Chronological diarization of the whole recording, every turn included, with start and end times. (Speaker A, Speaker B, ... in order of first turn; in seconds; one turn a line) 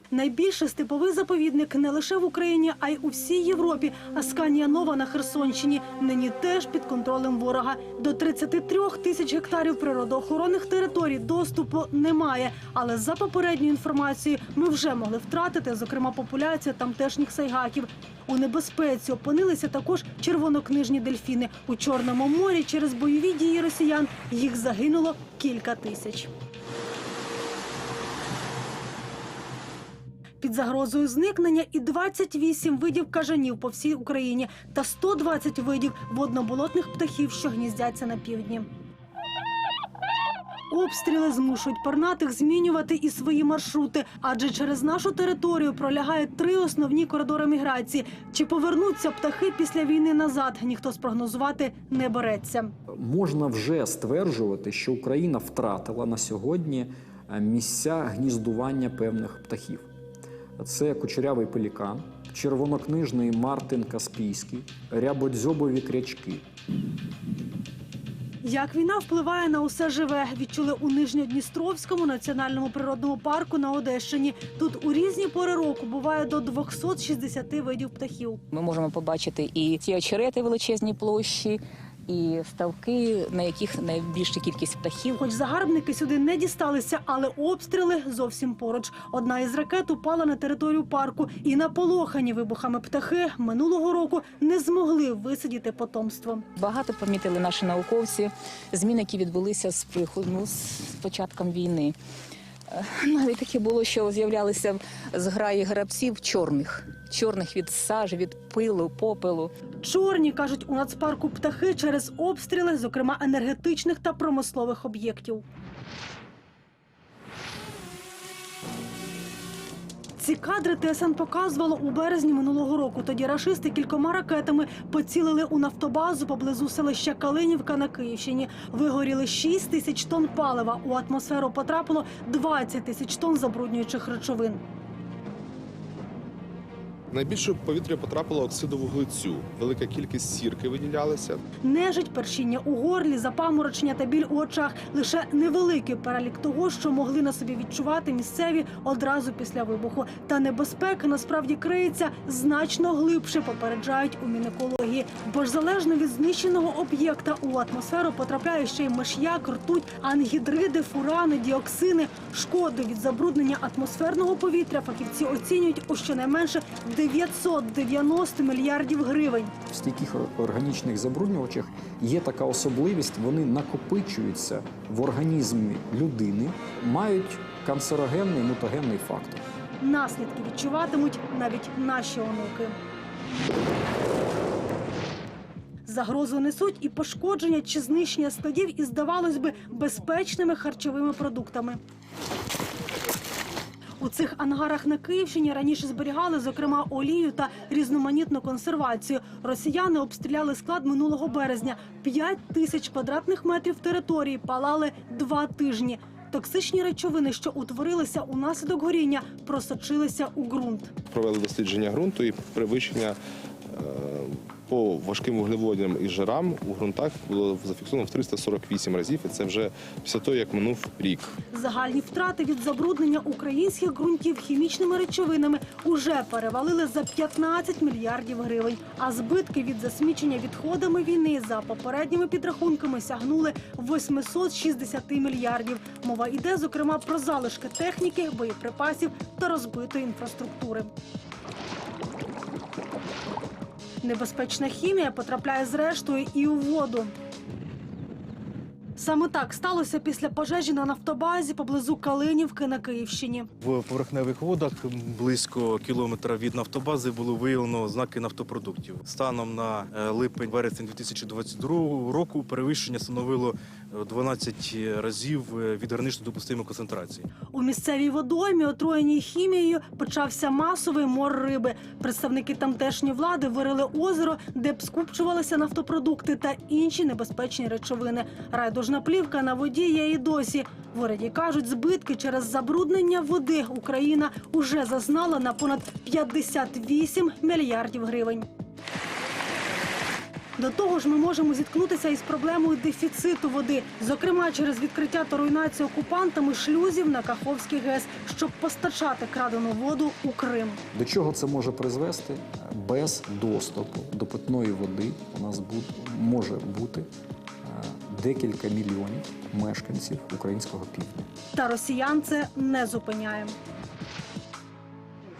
Speaker A: 0.1-26.3
Speaker A: 30.4-38.7
Speaker A: 40.7-52.7
Speaker B: 52.9-59.9
Speaker B: 60.6-66.4
Speaker A: 68.4-78.4
Speaker C: 78.5-85.2
Speaker A: 85.2-96.4
Speaker C: 96.6-101.9
Speaker C: 102.7-109.5
Speaker A: 109.8-115.4
Speaker A: 120.2-134.6
Speaker D: 137.1-141.4
Speaker A: 141.6-169.5
Speaker B: 169.7-179.4
Speaker A: 179.8-182.8
Speaker A: 185.8-191.8
Speaker A: 194.0-210.9
Speaker D: 211.1-213.2
Speaker D: 213.7-221.3
Speaker A: 221.5-240.9
Speaker A: 244.0-247.1
Speaker A: 249.0-253.5
Speaker E: 253.6-267.2
Speaker A: 267.5-288.5
Speaker A: 290.6-300.8
Speaker B: 300.9-307.1
Speaker B: 307.6-311.3
Speaker A: 311.5-313.6